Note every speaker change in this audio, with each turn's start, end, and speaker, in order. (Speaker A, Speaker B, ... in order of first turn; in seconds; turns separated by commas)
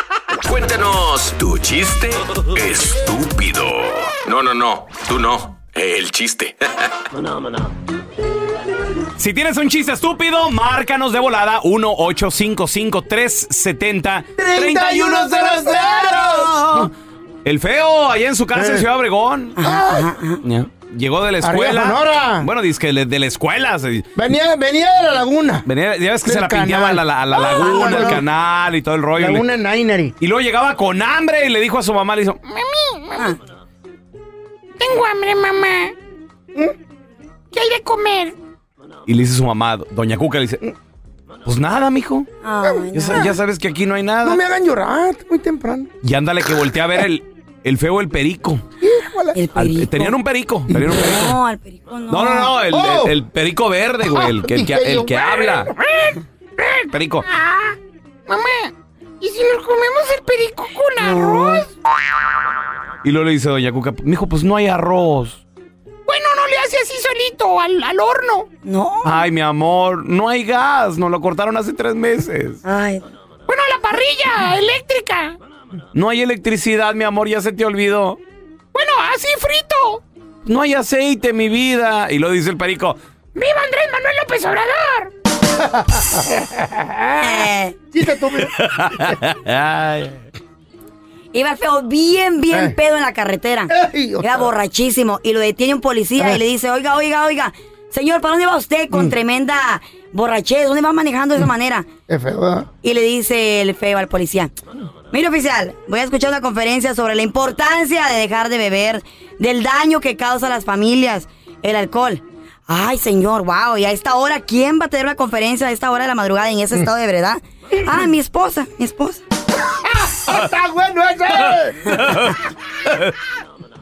Speaker A: 0.5-6.6, Speaker B: 9.2-16.9, Speaker C: 14.4-16.9, Speaker B: 17.4-19.6, Speaker C: 18.6-18.9, Speaker D: 19.6-20.4, Speaker C: 19.6-20.1, Speaker B: 20.4-24.1, Speaker C: 21.4-22.5, Speaker C: 24.2-25.7, Speaker B: 25.7-29.4, Speaker C: 26.2-28.2, Speaker D: 27.5-28.2, Speaker C: 29.2-30.1, Speaker B: 30.2-32.4, Speaker E: 32.5-33.2, Speaker E: 34.8-35.9, Speaker E: 37.5-38.4, Speaker B: 39.1-40.6, Speaker B: 41.5-42.3, Speaker D: 42.4-43.4, Speaker C: 42.7-43.2, Speaker B: 42.9-44.4, Speaker C: 44.2-45.9, Speaker B: 46.0-48.6, Speaker C: 48.8-49.4, Speaker D: 49.3-50.2, Speaker B: 49.5-51.4, Speaker C: 50.7-51.1, Speaker D: 50.9-52.5, Speaker B: 52.1-55.7, Speaker C: 52.6-53.1, Speaker C: 54.1-55.5, Speaker E: 56.0-56.8, Speaker B: 56.9-57.3, Speaker E: 58.3-61.7, Speaker D: 61.0-61.7, Speaker B: 63.0-65.4, Speaker E: 66.1-68.5, Speaker D: 68.6-69.2, Speaker B: 69.0-72.6, Speaker D: 72.6-73.1, Speaker E: 73.5-75.4, Speaker B: 75.9-78.2, Speaker E: 78.7-80.0, Speaker B: 80.5-83.0, Speaker E: 83.4-85.1, Speaker D: 87.2-87.8, Speaker C: 87.9-89.2, Speaker B: 88.5-90.2, Speaker D: 91.3-101.9, Speaker C: 93.7-94.5, Speaker C: 102.1-102.7, Speaker D: 102.8-104.5, Speaker D: 105.1-119.2, Speaker C: 120.0-122.0, Speaker B: 122.0-122.3